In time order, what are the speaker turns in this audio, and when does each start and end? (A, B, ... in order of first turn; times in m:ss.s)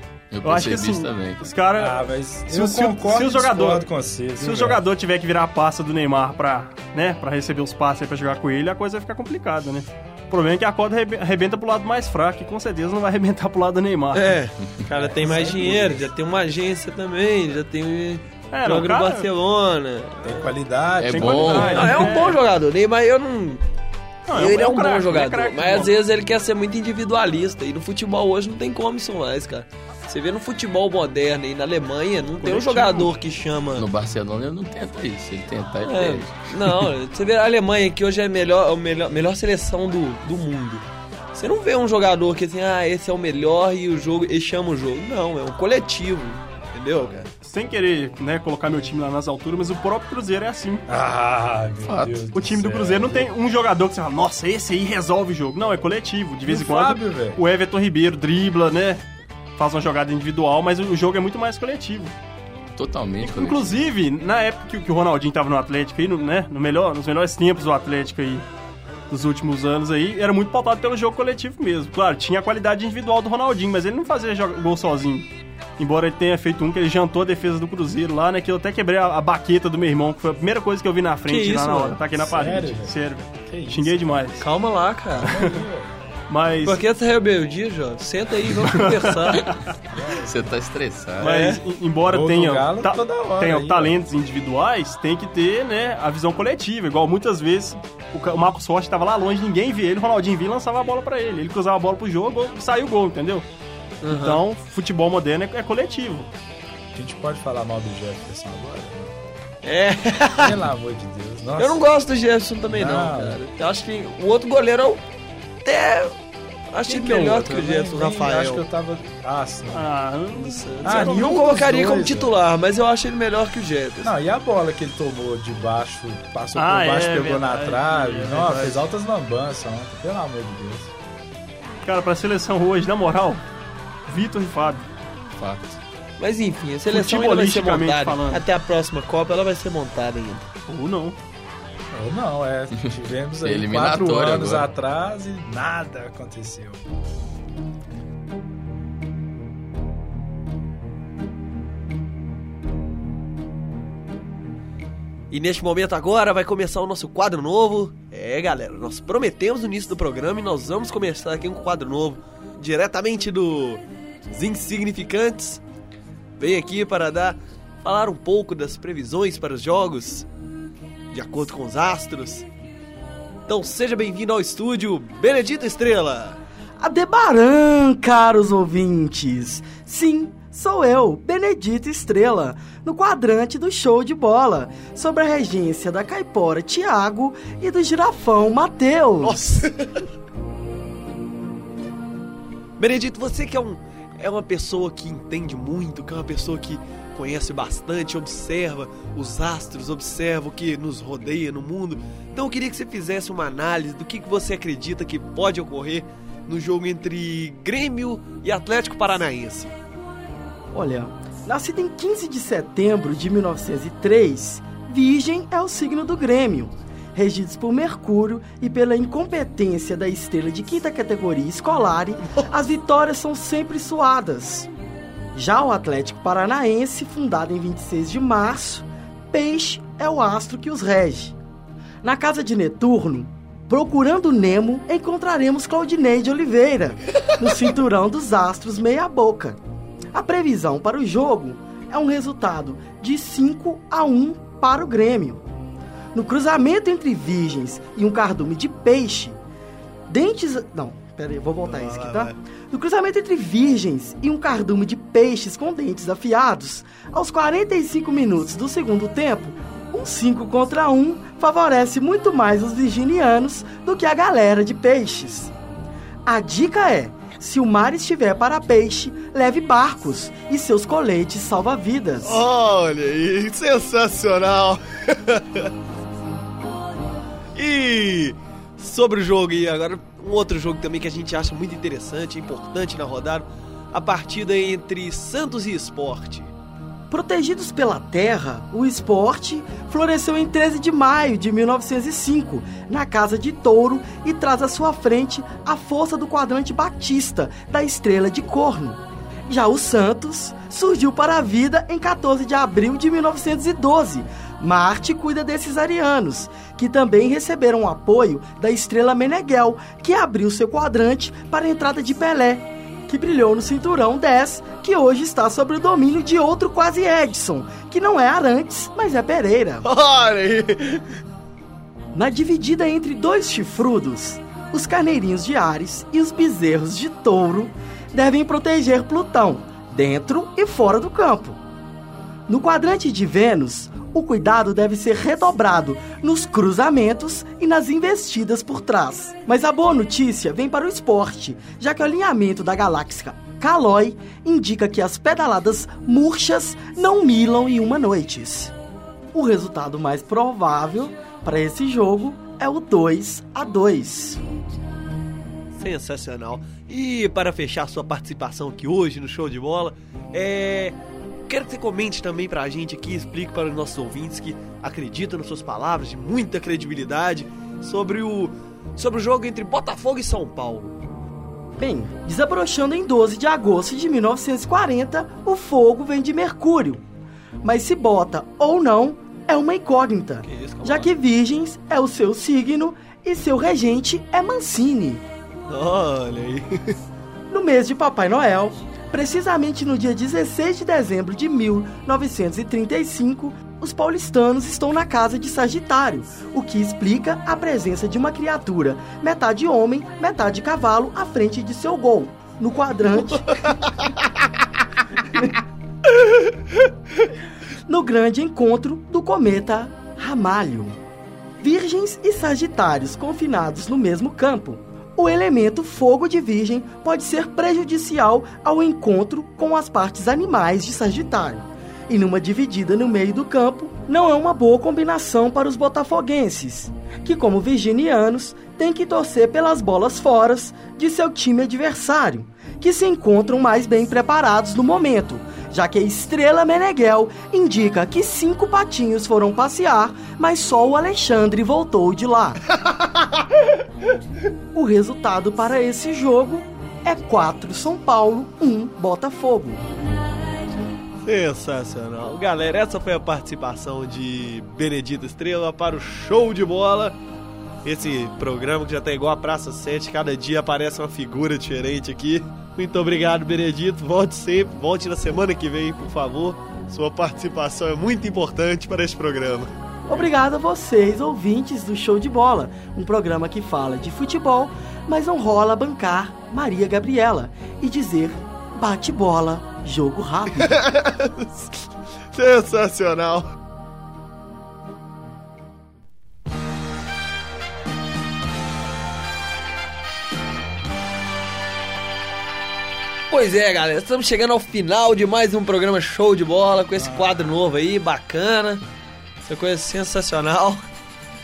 0:00.3-0:01.5 A
0:00.4-0:03.9 B
0:01.7-0:04.8 C
0:04.4-0:14.4 B
0:14.1-0:20.5 D
0:14.9-0:16.1 C
0:18.5-0:19.3 B
0:20.2-0:22.2 C
0:21.0-0:22.1 A
0:21.1-0:22.4 B
0:21.7-0:23.6 D
0:24.3-0:25.9 B
0:24.3-0:33.8 D
0:32.4-0:33.1 B
0:33.8-0:36.9 A
0:35.8-0:47.3 D
0:47.4-0:50.8 B
0:50.9-0:53.3 C
0:51.8-0:52.2 A
0:52.3-0:59.0 B
0:56.4-0:57.4 C
0:59.6-1:02.1 B
1:02.8-1:03.8 A
1:03.2-1:08.4 B
1:09.1-1:24.4 B
1:21.3-1:22.0 D
1:22.1-1:24.2 C
1:24.4-1:25.4 D
1:25.2-1:25.9 C
1:26.3-1:26.8 B
1:26.6-1:29.5 D
1:28.7-1:29.7 B
1:29.9-1:30.5 C
1:30.2-1:31.3 A
1:31.2-1:43.4 B
1:31.2-1:31.6 D
1:32.0-1:34.0 C
1:44.0-1:44.4 D
1:44.1-1:46.3 B
1:46.9-1:49.1 C
1:49.6-1:50.6 D
1:50.4-1:51.8 C
1:51.6-1:55.0 D
1:52.7-1:53.4 C
1:55.6-1:56.1 D
1:56.7-1:58.6 D
1:56.8-1:59.9 C
1:59.7-2:01.4 B
2:00.3-2:04.1 D
2:00.8-2:02.3 C
2:04.0-2:10.9 C
2:06.6-2:08.9 B
2:11.8-2:13.4 B
2:14.1-2:14.9 B
2:15.4-2:15.8 A
2:16.2-2:20.5 D
2:16.9-2:18.4 B
2:20.7-2:21.2 B
2:21.9-2:26.8 C
2:23.4-2:24.7 A
2:35.3-2:45.6 D
2:46.4-2:50.3 D
2:51.1-2:52.4 D
2:53.5-2:56.4 D
2:56.8-3:09.4 E
3:09.2-3:10.0 D
3:12.8-3:29.7 D
3:30.7-3:44.7 E
3:45.3-3:51.4 E
3:52.0-3:59.6 E
4:00.1-4:05.4 E
4:06.1-4:09.4 E
4:10.1-4:25.5 E
4:11.6-4:12.4 D
4:26.3-4:32.4 E
4:32.2-4:35.7 D
4:37.6-4:46.5 D
4:47.1-5:19.9 E
5:19.8-5:21.0 D
5:22.1-5:31.6 E
5:32.5-5:48.7 E
5:49.3-5:54.4 E
5:55.7-6:01.0 D
6:01.5-6:11.0 D
6:11.8-6:17.0 E
6:17.6-6:25.2 E
6:20.4-6:21.1 D
6:25.7-6:27.0 D
6:27.5-6:43.5 E
6:47.9-6:51.0 E
6:51.6-7:22.6 E
7:24.7-7:29.8 E
7:31.2-7:37.2 D
7:37.8-7:50.2 D
7:50.1-8:00.7 E
8:00.6-8:01.7 D
8:02.3-8:03.6 D
8:13.3-8:18.8 D
8:17.0-8:17.5 C
8:19.4-8:20.9 D